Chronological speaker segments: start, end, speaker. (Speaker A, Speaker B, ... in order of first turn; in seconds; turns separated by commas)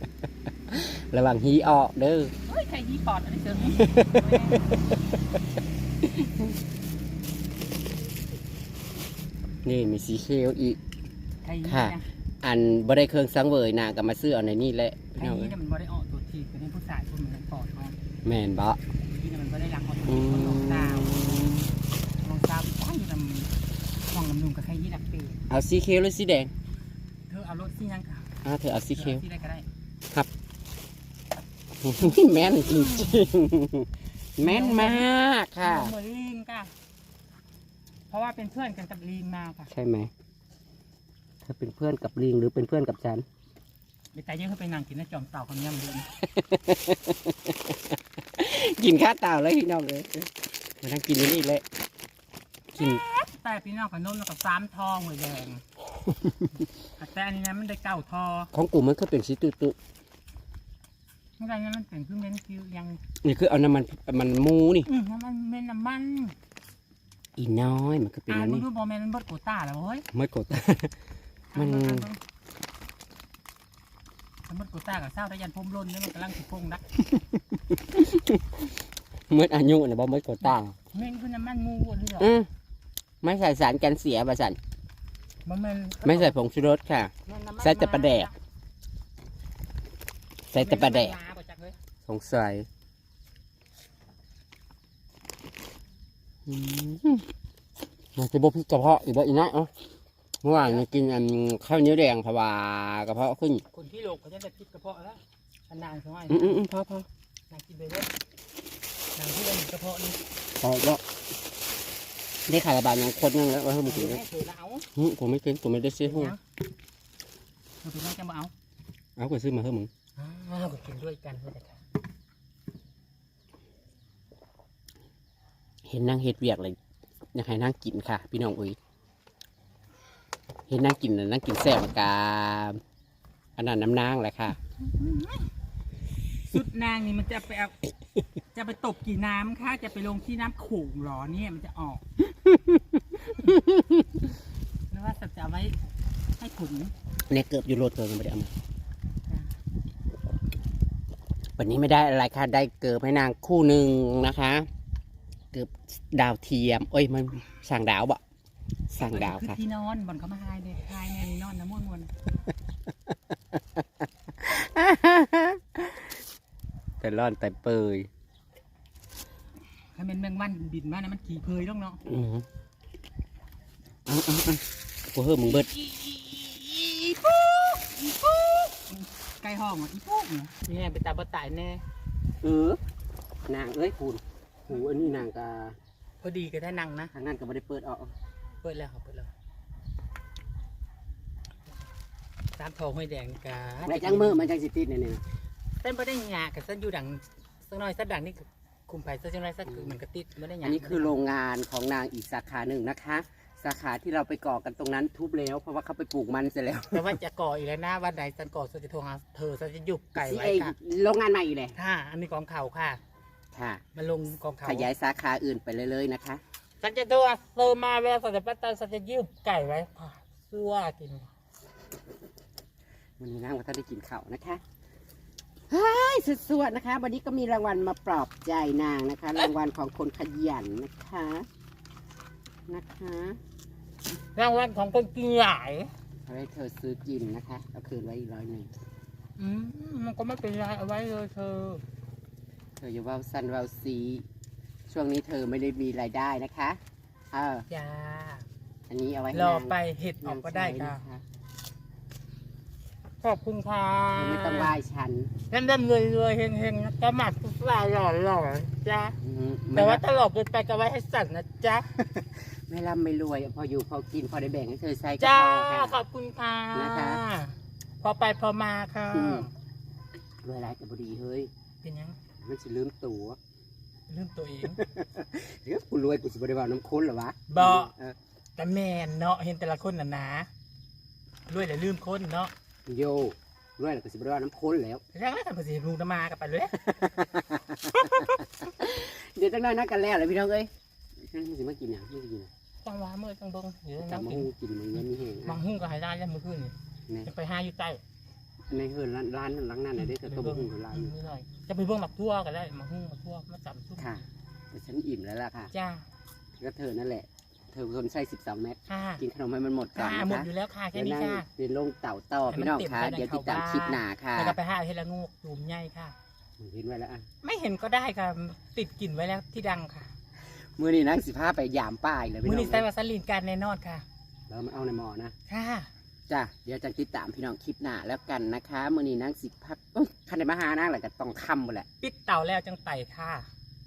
Speaker A: 0.7-2.3, Speaker B: 2.5-4.7, Speaker A: 3.8-4.5, Speaker A: 6.1-6.4, Speaker A: 9.7-10.8, Speaker B: 11.4-12.1, Speaker A: 11.7-15.5, Speaker B: 15.2-18.0, Speaker A: 18.2-18.8, Speaker B: 19.0-21.4, Speaker A: 20.1-21.7, Speaker B: 22.2-23.5, Speaker B: 24.1-25.4, Speaker A: 25.5-26.5, Speaker B: 27.3-28.3, Speaker A: 28.4-29.2, Speaker B: 28.9-29.6, Speaker A: 31.8-35.9, Speaker B: 32.0-33.3, Speaker B: 34.4-35.1, Speaker B: 35.6-36.7, Speaker B: 38.1-39.7, Speaker A: 39.7-40.1, Speaker A: 41.4-43.3, Speaker B: 44.1-46.1, Speaker A: 46.3-47.8, Speaker A: 48.4-51.6, Speaker B: 52.8-55.6, Speaker B: 57.0-58.5, Speaker A: 58.5-59.8, Speaker B: 61.4-63.0, Speaker A: 63.2-64.9, Speaker B: 64.9-66.3, Speaker A: 67.4-68.7, Speaker B: 68.3-70.0, Speaker A: 70.1-70.9, Speaker A: 71.5-72.1, Speaker B: 71.5-72.2, Speaker B: 74.5-76.8, Speaker A: 77.1-78.7, Speaker A: 79.3-80.8, Speaker B: 80.5-82.4, Speaker A: 82.2-82.5, Speaker A: 83.2-84.6, Speaker B: 85.5-86.4, Speaker A: 86.0-88.3, Speaker B: 87.3-88.3, Speaker A: 90.5-91.2, Speaker B: 90.5-91.8, Speaker A: 92.1-92.7, Speaker A: 96.5-97.3, Speaker A: 98.2-99.7, Speaker A: 100.4-103.6, Speaker B: 100.5-100.8, Speaker B: 103.7-106.6, Speaker A: 106.3-107.1, Speaker B: 107.5-108.1, Speaker B: 109.2-110.2, Speaker A: 110.6-111.0, Speaker A: 112.5-114.2, Speaker B: 113.8-114.9, Speaker A: 115.0-116.3, Speaker B: 116.0-116.4, Speaker B: 117.8-118.5, Speaker A: 119.2-119.9, Speaker B: 120.2-121.8, Speaker A: 125.9-126.8, Speaker A: 127.3-128.8, Speaker A: 130.7-132.8, Speaker A: 133.6-134.6, Speaker B: 134.8-135.5, Speaker B: 136.5-137.8, Speaker B: 138.5-142.1, Speaker A: 142.4-142.8, Speaker A: 143.4-144.1, Speaker B: 144.9-145.8, Speaker B: 146.4-146.9, Speaker A: 147.3-148.5, Speaker A: 151.6-154.7, Speaker A: 155.5-158.2, Speaker A: 158.9-159.6, Speaker B: 159.1-162.1, Speaker A: 163.6-163.8, Speaker A: 164.4-166.1, Speaker A: 167.0-168.1, Speaker B: 169.9-172.0, Speaker A: 172.1-172.4, Speaker A: 174.1-175.8, Speaker B: 175.9-176.4, Speaker B: 177.1-177.5, Speaker A: 178.2-178.6, Speaker B: 178.7-181.8, Speaker A: 182.4-182.8, Speaker A: 183.5-185.8, Speaker B: 184.7-185.2, Speaker B: 186.2-187.1, Speaker A: 187.1-188.1, Speaker B: 188.6-189.3, Speaker B: 192.6-194.5, Speaker A: 193.8-195.2, Speaker B: 195.8-201.1, Speaker A: 200.6-207.1, Speaker B: 206.9-210.7, Speaker A: 210.2-211.8, Speaker B: 211.8-213.0, Speaker A: 213.5-213.8, Speaker B: 213.9-214.9, Speaker A: 214.6-216.4, Speaker B: 216.8-221.3, Speaker A: 223.2-224.6, Speaker A: 225.7-231.5, Speaker A: 232.7-233.4, Speaker B: 234.3-235.9, Speaker A: 236.3-238.7, Speaker B: 239.4-241.8, Speaker A: 242.8-244.3, Speaker A: 244.9-246.8, Speaker A: 247.3-247.7, Speaker B: 247.7-248.5, Speaker A: 248.9-251.2, Speaker B: 249.3-251.0, Speaker B: 253.2-254.8, Speaker A: 254.2-255.3, Speaker B: 255.5-259.2, Speaker A: 259.2-260.0, Speaker B: 259.7-262.4, Speaker A: 262.7-266.0, Speaker B: 265.2-269.5, Speaker A: 266.7-267.2, Speaker A: 269.1-269.5, Speaker A: 270.4-271.5, Speaker B: 271.8-272.2, Speaker A: 272.4-273.4, Speaker B: 274.1-274.8, Speaker A: 274.8-278.2, Speaker B: 277.5-277.9, Speaker B: 278.6-280.5, Speaker B: 281.5-282.5, Speaker A: 282.9-285.0, Speaker B: 285.1-287.2, Speaker A: 286.9-290.7, Speaker B: 287.9-288.4, Speaker A: 291.3-292.5, Speaker B: 292.8-294.5, Speaker A: 294.0-295.6, Speaker B: 295.4-296.7, Speaker B: 297.2-298.0, Speaker A: 298.7-301.1, Speaker B: 300.0-304.1, Speaker A: 304.0-305.7, Speaker B: 305.7-306.1, Speaker A: 306.6-314.6, Speaker B: 308.9-309.2, Speaker B: 309.9-311.5, Speaker B: 312.5-316.2, Speaker A: 316.6-317.2, Speaker B: 317.4-320.1, Speaker A: 320.8-322.9, Speaker B: 322.4-324.1, Speaker A: 324.5-325.3, Speaker B: 325.5-325.9, Speaker A: 326.3-331.9, Speaker B: 332.0-333.5